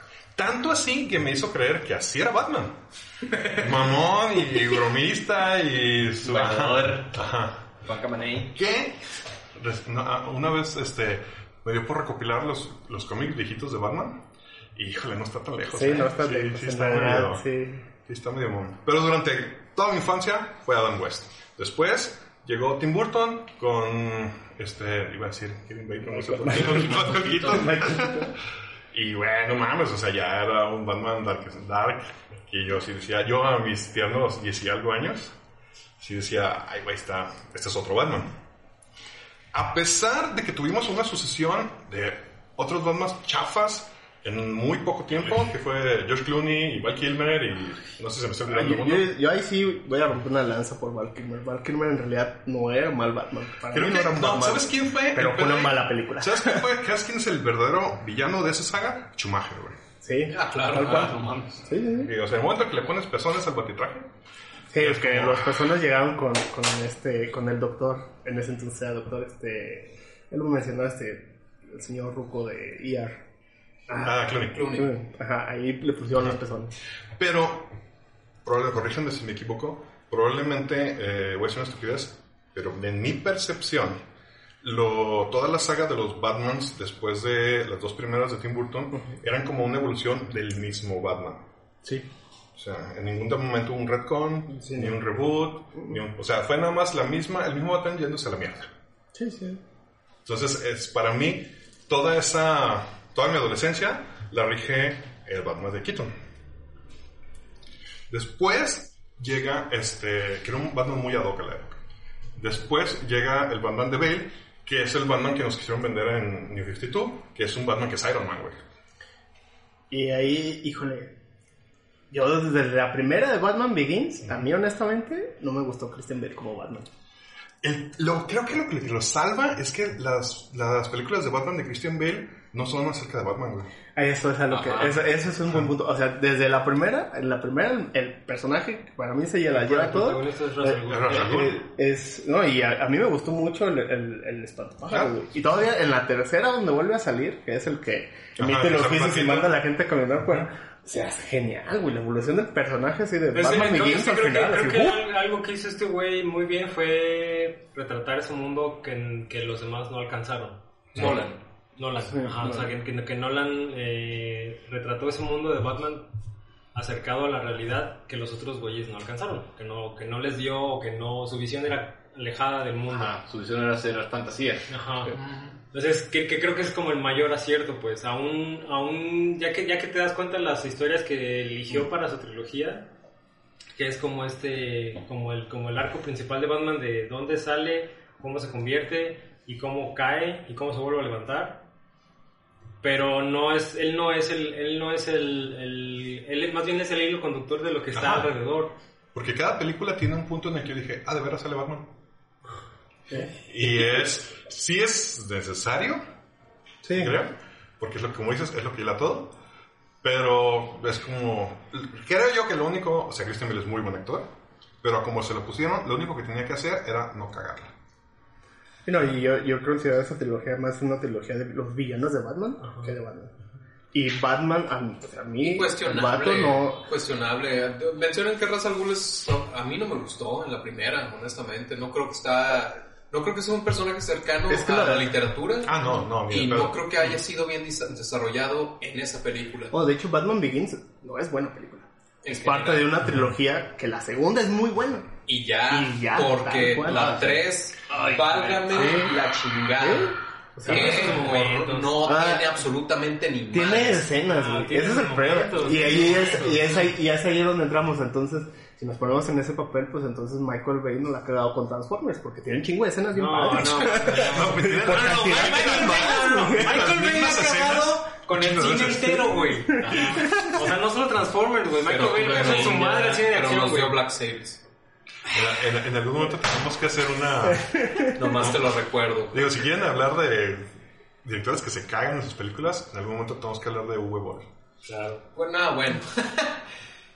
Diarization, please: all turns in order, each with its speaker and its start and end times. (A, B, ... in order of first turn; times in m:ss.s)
0:00.4-0:02.8 A
0:03.5-0:07.8 A
0:06.2-0:07.2 B
0:07.8-0:08.6 B
0:08.5-0:17.4 A
0:15.7-0:17.8 C
0:18.0-0:28.3 A
0:26.0-0:28.4 C
0:26.6-0:27.6 B
0:28.9-0:35.4 A
0:36.0-0:38.4 A
0:39.5-0:49.1 A
0:48.5-0:56.6 C
0:53.7-0:59.8 A
1:00.0-1:02.1 C
1:00.3-1:01.1 D
1:00.6-1:01.6 B
1:01.9-1:04.1 A
1:04.7-1:13.2 C
1:04.8-1:05.7 A
1:13.9-1:16.7 C
1:14.0-1:14.7 A
1:14.5-1:14.9 D
1:17.2-1:17.7 A
1:18.4-1:24.0 A
1:24.6-1:31.4 A
1:32.6-1:38.7 A
1:34.5-1:35.0 C
1:39.1-1:39.6 C
1:40.2-1:46.1 A
1:48.1-1:51.8 A
1:52.4-1:58.6 A
1:59.9-2:01.2 C
2:02.1-2:06.9 C
2:07.6-2:13.7 A
2:14.0-2:35.0 C
2:14.5-2:15.1 B
2:19.5-2:21.4 E
2:20.9-2:21.6 A
2:28.4-2:29.6 A
2:30.2-2:30.5 A
2:33.3-2:46.1 E
2:42.0-2:42.7 C
2:46.7-2:53.1 E
2:52.9-2:54.7 B
2:54.7-2:55.1 E
2:55.2-2:55.6 D
2:55.7-3:02.9 E
3:03.8-3:11.6 E
3:12.8-3:18.8 E
3:17.9-3:18.3 A
3:19.1-3:21.9 A
3:23.4-3:26.0 A
3:26.8-3:27.2 C
3:26.9-3:29.4 A
3:30.0-3:34.3 A
3:34.8-3:37.7 A
3:38.8-3:43.3 C
3:42.6-3:42.9 E
3:43.9-3:46.8 C
3:45.4-3:59.7 D
3:54.5-3:55.2 C
3:55.6-3:56.9 A
3:59.7-4:05.1 C
4:02.2-4:03.0 D
4:05.3-4:14.1 D
4:05.7-4:07.2 C
4:06.9-4:09.1 B
4:08.7-4:09.2 C
4:09.7-4:11.4 C
4:10.7-4:12.0 E
4:12.0-4:12.6 C
4:13.5-4:27.1 C
4:14.2-4:16.8 E
4:23.1-4:34.0 E
4:23.6-4:29.3 A
4:28.7-4:30.3 C
4:29.8-4:30.2 B
4:31.9-4:34.6 D
4:35.3-4:38.7 A
4:37.4-4:38.5 C
4:38.2-4:39.4 D
4:39.3-4:40.7 A
4:41.2-4:44.5 A
4:44.8-4:45.2 E
4:45.3-4:46.6 D